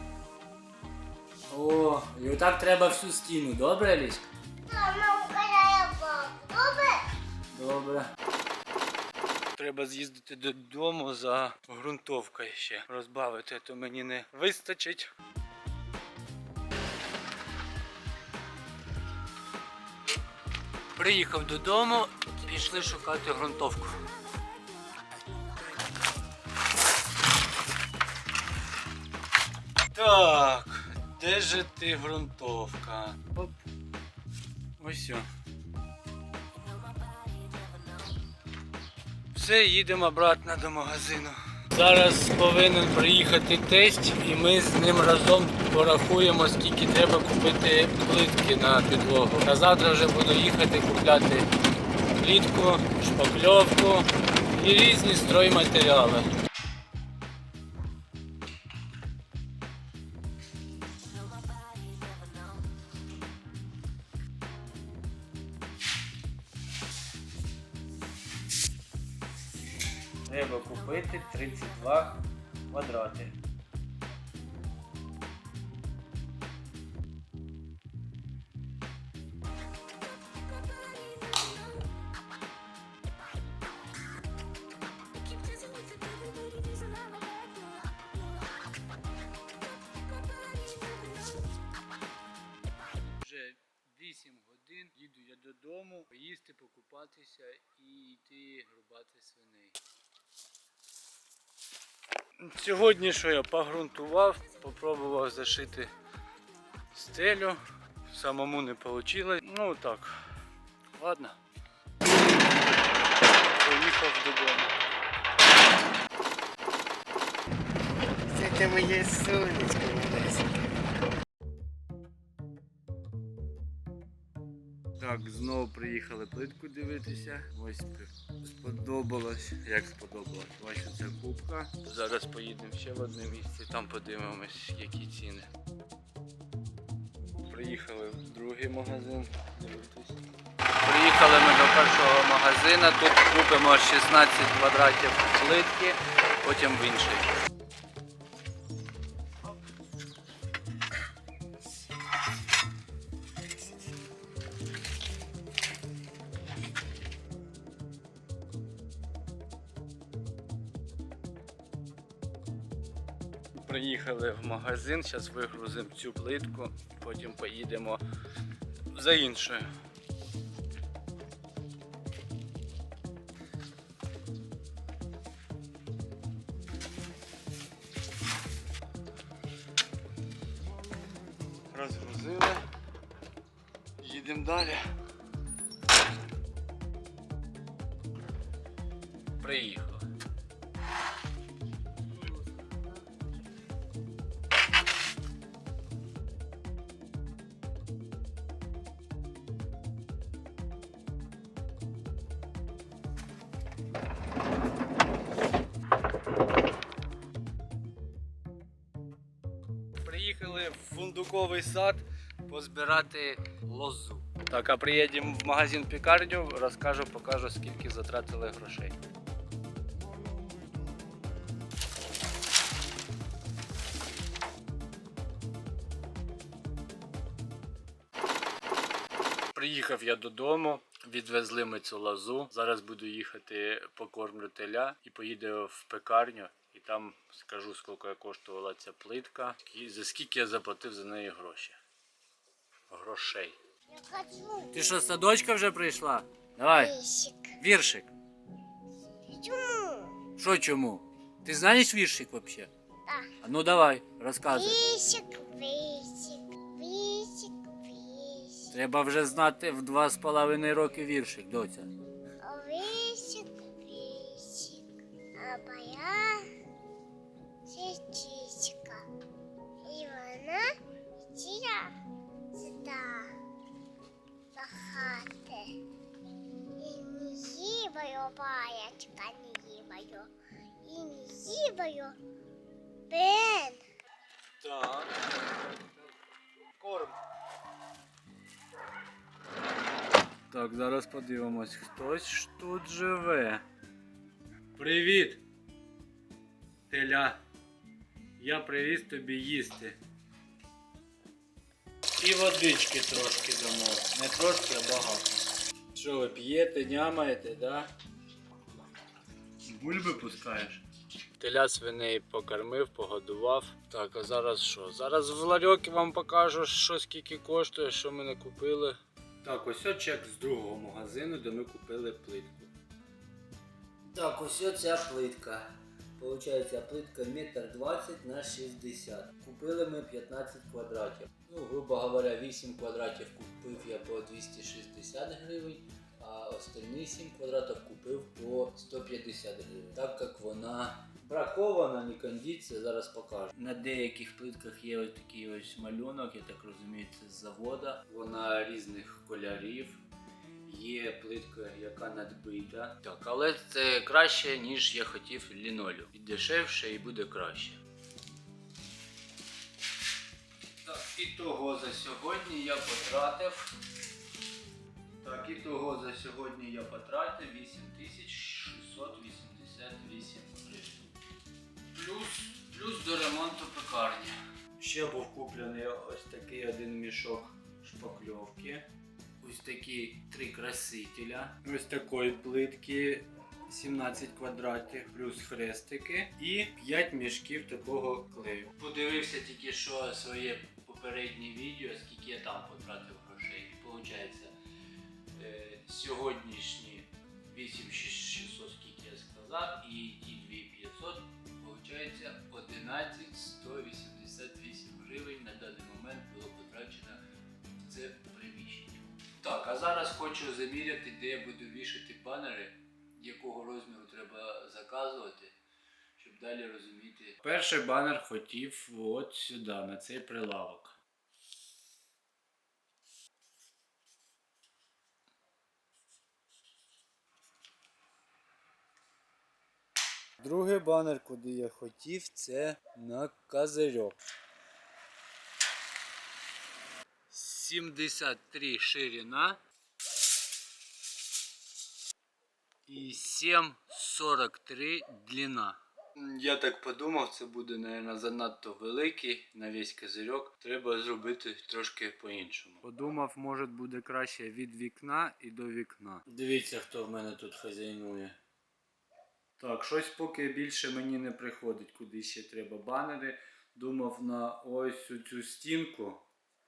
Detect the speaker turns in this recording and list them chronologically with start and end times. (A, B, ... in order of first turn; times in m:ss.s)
0:01.5-0:04.2 A
0:04.6-0:07.0 B
0:07.5-0:08.1 A
0:09.6-0:15.1 A
0:21.0-0:24.0 A
0:29.9-0:33.6 A
0:34.8-0:35.3 A
0:39.3-0:51.5 A
0:52.2-0:56.2 A
1:10.2-1:13.4 A
1:33.1-1:39.8 A
1:42.4-1:45.9 A
1:46.9-1:50.1 A
1:50.9-1:51.4 A
1:53.6-1:54.7 A
1:58.3-2:00.4 C
2:05.0-2:15.5 A
2:17.5-2:20.2 A
2:20.8-2:27.3 A
2:43.5-2:48.0 A
2:48.9-2:49.7 A
3:01.7-3:02.6 A
3:04.0-3:04.9 A
3:09.4-3:10.1 A
3:30.0-3:39.0 A
3:49.5-4:01.8 A
4:02.9-4:03.6 A
4:03.9-4:04.8 B
4:04.7-4:07.0 A
4:06.8-4:07.5 B
4:07.6-4:08.1 A
4:09.3-4:10.2 B
4:10.4-4:12.7 A
4:13.1-4:13.3 B
4:13.4-4:14.8 A
4:14.5-4:18.7 B
4:18.7-4:21.9 A
4:22.4-4:26.5 B
4:27.6-4:29.0 B
4:29.8-4:31.9 B
4:32.5-4:33.3 B
4:34.5-4:35.8 B
4:36.8-4:40.3 B
4:40.8-4:42.2 B
4:43.1-4:43.8 B
4:44.6-4:45.2 A
4:46.8-4:47.2 A
4:50.5-4:53.6 A
4:54.8-4:55.4 A
4:56.9-4:57.4 A
4:58.4-5:00.0 A
5:02.2-5:07.9 A
5:09.6-5:10.8 A
5:11.4-5:22.7 A
5:24.0-5:50.0 A
5:50.6-5:57.8 A
6:00.8-6:03.7 A
6:05.2-6:11.1 A
6:11.9-6:18.9 A
6:19.4-6:34.5 A
6:35.3-6:47.2 A
6:47.8-6:55.5 A
6:56.2-7:01.0 A
7:10.4-7:14.2 A
7:17.3-7:19.6 A
7:22.9-7:38.4 A
7:39.6-7:46.2 A